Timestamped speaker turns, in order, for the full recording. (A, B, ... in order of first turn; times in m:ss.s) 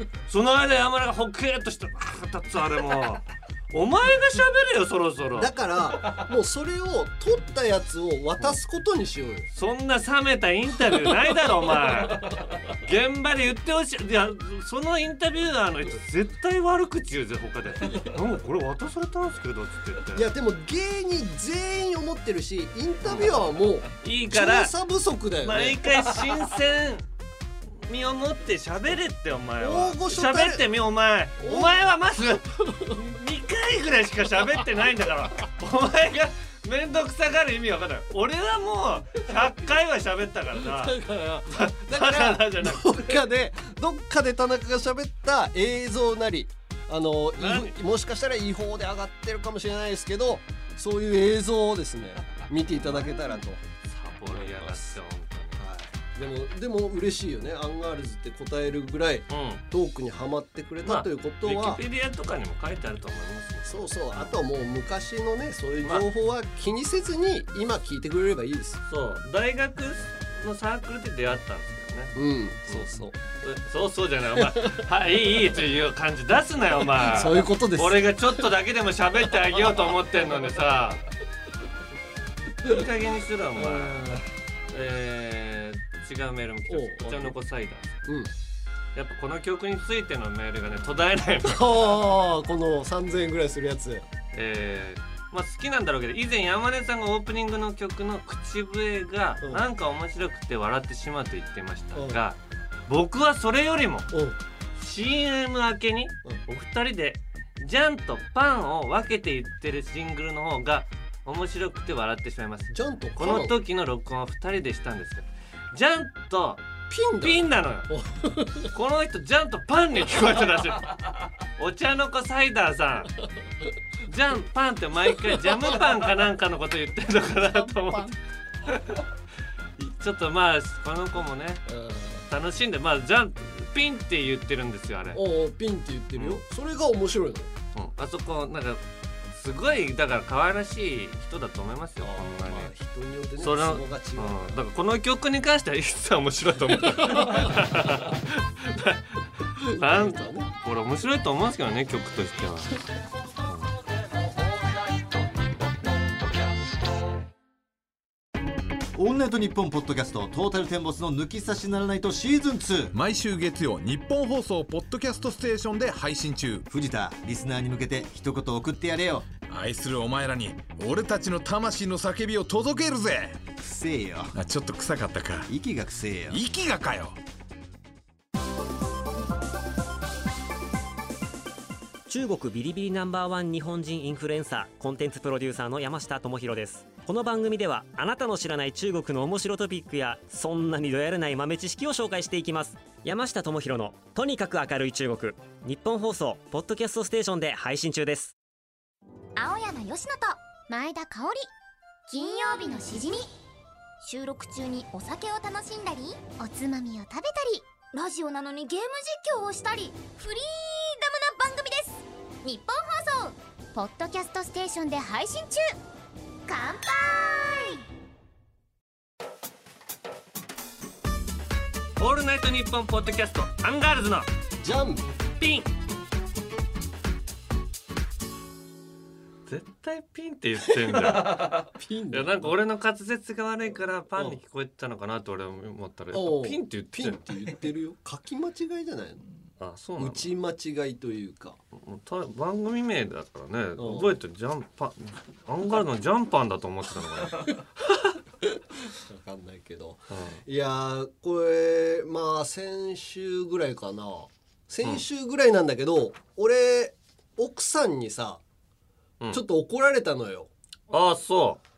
0:00.3-0:05.5 A
0:05.4-0:09.5 B
0:09.5-0:20.3 A
0:20.2-0:26.0 B
0:23.0-0:23.4 A
0:24.0-0:24.7 A
0:25.4-0:27.1 A
0:27.9-0:40.9 A
0:29.6-0:30.7 B
0:31.4-0:31.8 B
0:32.6-0:33.0 B
0:40.6-0:53.6 B
0:41.5-0:43.2 A
0:47.4-0:47.8 A
0:53.8-0:55.6 A
0:54.3-0:55.0 B
0:55.6-1:01.8 B
0:59.3-0:59.6 A
1:00.8-1:04.4 A
1:03.6-1:08.8 B
1:08.9-1:12.9 A
1:12.2-1:13.2 B
1:13.4-1:21.0 A
1:14.4-1:14.8 B
1:17.0-1:18.1 B
1:22.6-1:24.1 A
1:23.6-1:24.3 B
1:24.7-1:28.0 A
1:26.7-1:27.4 B
1:28.0-1:28.3 B
1:29.0-1:31.8 A
1:31.4-1:34.1 B
1:34.3-1:44.1 A
1:41.9-1:42.2 B
1:44.1-1:44.4 B
1:44.8-1:56.6 A
1:52.7-1:53.6 B
1:56.9-1:58.7 B
1:57.2-1:57.9 A
1:58.7-2:03.1 A
2:04.0-2:08.2 A
2:08.7-2:09.0 A
2:09.8-2:11.6 A
2:11.7-2:12.2 B
2:12.2-2:15.2 A
2:15.1-2:17.5 B
2:16.2-2:16.4 A
2:17.7-2:22.7 A
2:22.0-2:24.6 B
2:23.4-2:32.8 A
2:27.2-2:27.5 B
2:29.6-2:30.5 B
2:39.0-2:42.9 C
2:42.9-2:46.7 D
2:46.7-2:49.3 C
2:49.5-2:53.5 D
2:53.6-2:54.3 C
2:54.4-2:55.5 D
2:55.5-2:56.4 C
2:56.3-2:57.2 D
3:02.1-3:18.4 E
3:19.4-3:21.5 F
3:22.1-3:23.3 F
3:24.0-3:35.7 F
3:36.5-3:37.8 F
3:42.0-3:44.3 A
3:44.6-3:45.0 B
3:45.4-3:45.7 A
3:49.5-3:57.2 A
3:50.7-3:52.5 B
3:54.2-3:54.4 B
3:56.1-3:59.2 B
3:59.6-4:00.3 A
4:00.0-4:01.6 B
4:01.7-4:07.6 A
4:03.8-4:04.2 B
4:08.4-4:18.4 B
4:10.1-4:10.4 A
4:19.3-4:20.5 B
4:20.9-4:21.6 A